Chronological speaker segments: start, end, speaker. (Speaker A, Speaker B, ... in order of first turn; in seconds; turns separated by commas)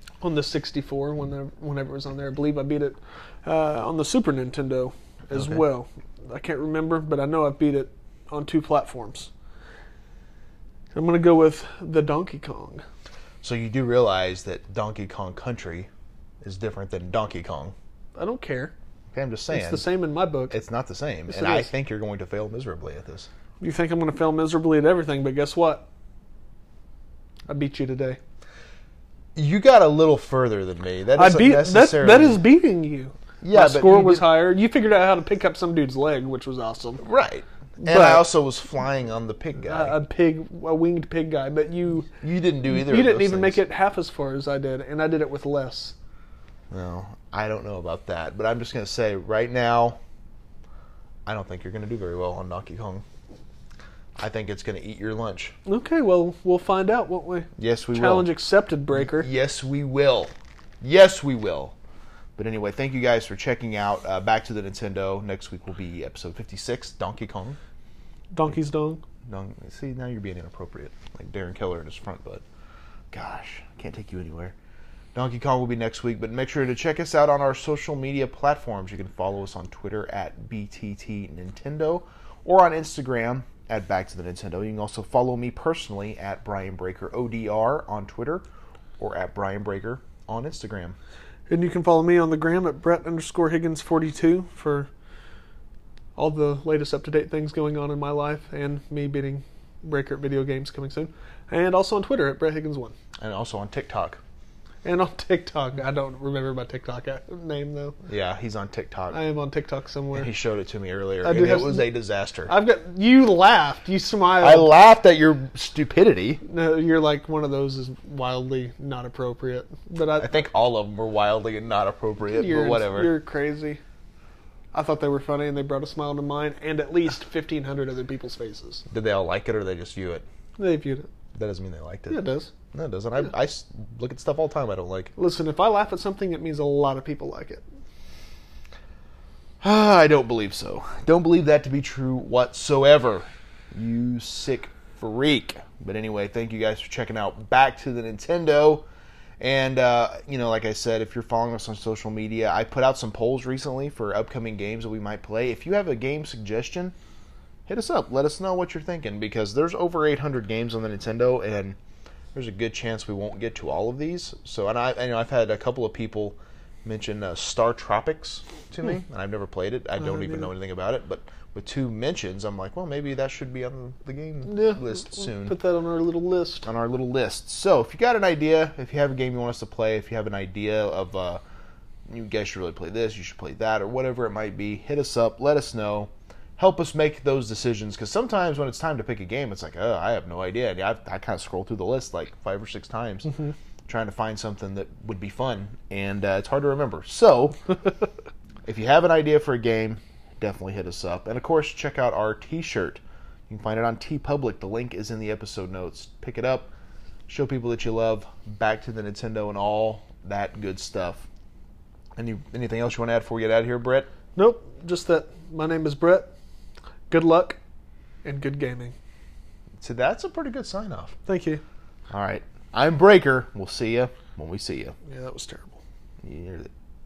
Speaker A: 0.2-9.3, Speaker B: 5.3-5.6, Speaker A: 10.9-12.8, Speaker B: 13.4-15.9, Speaker B: 16.4-17.7, Speaker A: 18.1-18.7, Speaker B: 19.1-19.8, Speaker A: 19.5-20.5, Speaker B: 20.5-23.3, Speaker A: 21.3-21.7, Speaker A: 23.6-25.9, Speaker A: 27.5-28.2, Speaker B: 29.4-32.4, Speaker A: 31.1-37.0, Speaker B: 33.4-34.3, Speaker B: 37.0-40.0, Speaker A: 37.8-38.2, Speaker A: 39.6-42.1, Speaker B: 42.2-43.6, Speaker A: 42.6-45.9, Speaker B: 46.7-50.0, Speaker B: 51.2-53.0, Speaker B: 54.2-55.5, Speaker A: 55.6-59.3, Speaker B: 57.6-58.3, Speaker B: 58.9-61.7, Speaker B: 62.4-67.6, Speaker A: 68.3-69.0, Speaker B: 69.2-72.4, Speaker B: 73.1-74.5, Speaker B: 75.1-88.4, Speaker B: 89.0-91.0, Speaker A: 91.5-94.9, Speaker A: 96.2-102.9, Speaker B: 103.2-104.2, Speaker A: 104.8-108.0, Speaker B: 108.0-109.2, Speaker A: 109.1-110.3, Speaker B: 110.1-112.5, Speaker A: 111.2-111.9, Speaker A: 112.5-114.7, Speaker B: 114.4-116.4, Speaker A: 116.4-120.4, Speaker B: 120.2-123.2, Speaker A: 122.3-123.8, Speaker A: 124.7-128.8, Speaker B: 128.9-130.2, Speaker A: 130.6-131.1, Speaker B: 131.3-135.1, Speaker A: 132.1-132.5, Speaker A: 135.2-137.6, Speaker B: 139.6-148.8, Speaker B: 149.4-156.9, Speaker B: 157.7-161.8, Speaker B: 162.3-175.6, Speaker A: 170.1-170.4, Speaker A: 174.5-176.7, Speaker B: 176.6-181.4, Speaker B: 182.1-193.3, Speaker B: 193.9-197.6, Speaker B: 198.7-206.7, Speaker B: 207.3-211.2, Speaker B: 212.2-214.1, Speaker A: 214.3-216.3, Speaker A: 217.1-217.6, Speaker A: 218.2-218.9, Speaker B: 219.8-221.2, Speaker A: 221.2-221.6, Speaker B: 222.1-224.9, Speaker A: 225.1-225.8, Speaker B: 226.2-226.7